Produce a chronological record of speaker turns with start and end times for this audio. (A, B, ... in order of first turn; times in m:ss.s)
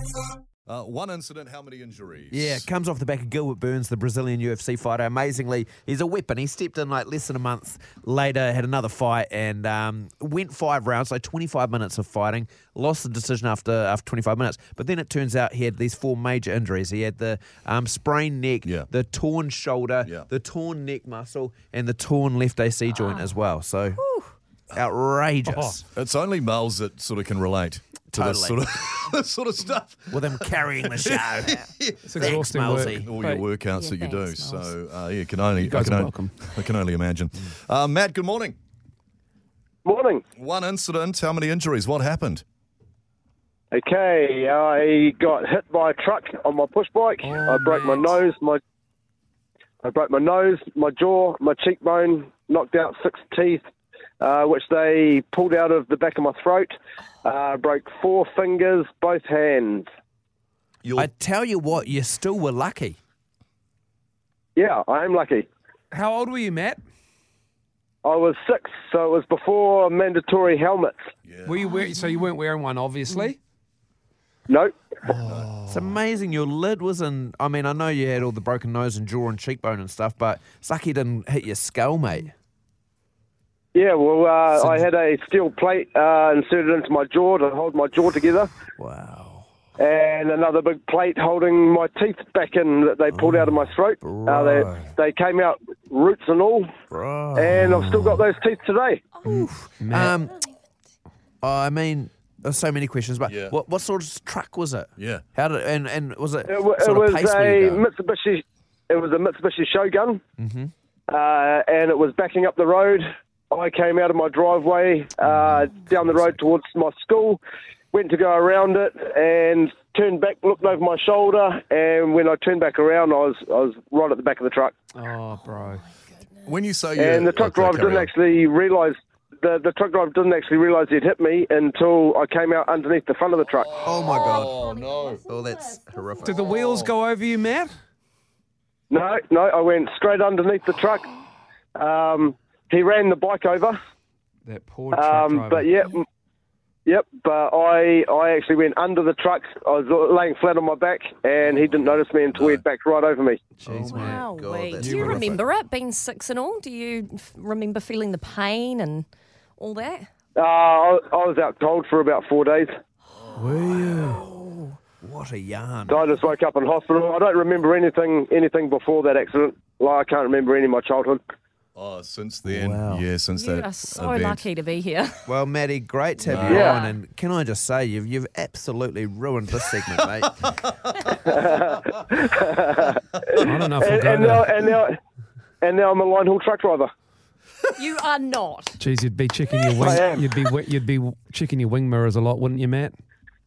0:00.7-0:02.7 A
0:02.3-0:24.1 B
0:23.0-0:23.2 C
0:24.7-0:25.8 B
0:25.5-0:25.8 D
0:25.9-0:38.6 A
0:28.1-0:28.6 B
0:30.1-0:33.1 B
0:32.0-0:33.4 D
0:33.7-0:34.7 C
0:35.6-0:36.3 D
0:39.8-0:40.2 E
0:40.4-0:42.4 A
0:43.7-0:48.6 E
0:47.2-0:48.2 D
0:49.8-0:53.6 E
0:54.2-0:56.7 E
0:57.2-0:59.9 E
1:00.8-1:01.1 A
1:01.0-1:03.0 B
1:04.6-1:05.5 E
1:05.9-1:06.8 D
1:08.0-1:11.0 E
1:11.2-1:11.6 A
1:11.5-1:13.4 D
1:15.2-1:15.6 A
1:15.6-1:22.3 B
1:23.7-1:28.5 E
1:24.6-1:24.9 B
1:28.8-1:29.5 B
1:29.8-1:36.7 E
1:33.1-1:34.9 B
1:36.9-1:37.9 B
1:37.4-1:39.1 E
1:39.3-1:40.2 D
1:39.4-1:40.4 B
1:41.4-1:47.8 B
1:43.3-1:43.6 A
1:45.0-1:45.2 A
1:46.5-1:50.2 E
1:50.4-1:50.7 B
1:51.1-1:57.4 E
1:55.2-1:56.4 B
1:57.9-2:04.8 E
2:04.9-2:05.8 D
2:06.4-2:08.1 A
2:07.0-2:13.7 E
2:13.7-2:15.2 A
2:13.8-2:14.5 B
2:14.0-2:15.1 C
2:15.3-2:16.4 B
2:16.2-2:17.7 D
2:16.6-2:16.9 A
2:18.9-2:21.1 E
2:21.8-2:23.8 E
2:24.5-2:25.7 D
2:24.9-2:26.0 E
2:26.9-2:33.4 E
2:31.7-2:32.6 A
2:33.6-2:34.2 D
2:33.6-2:35.4 B
2:33.9-2:39.1 C
2:34.8-2:35.3 D
2:39.6-2:40.1 C
2:40.4-2:42.7 E
2:43.4-2:46.0 B
2:43.8-2:44.2 D
2:45.9-2:51.2 E
2:51.8-2:54.4 A
2:52.4-2:53.0 B
2:53.4-2:55.2 C
2:55.3-3:00.4 B
2:56.2-2:56.7 A
2:56.5-2:56.8 E
2:56.5-2:57.0 C
3:01.1-3:05.0 E
3:03.4-3:04.6 D
3:05.6-3:06.9 E
3:07.8-3:08.8 C
3:08.8-3:12.9 D
3:09.8-3:10.3 E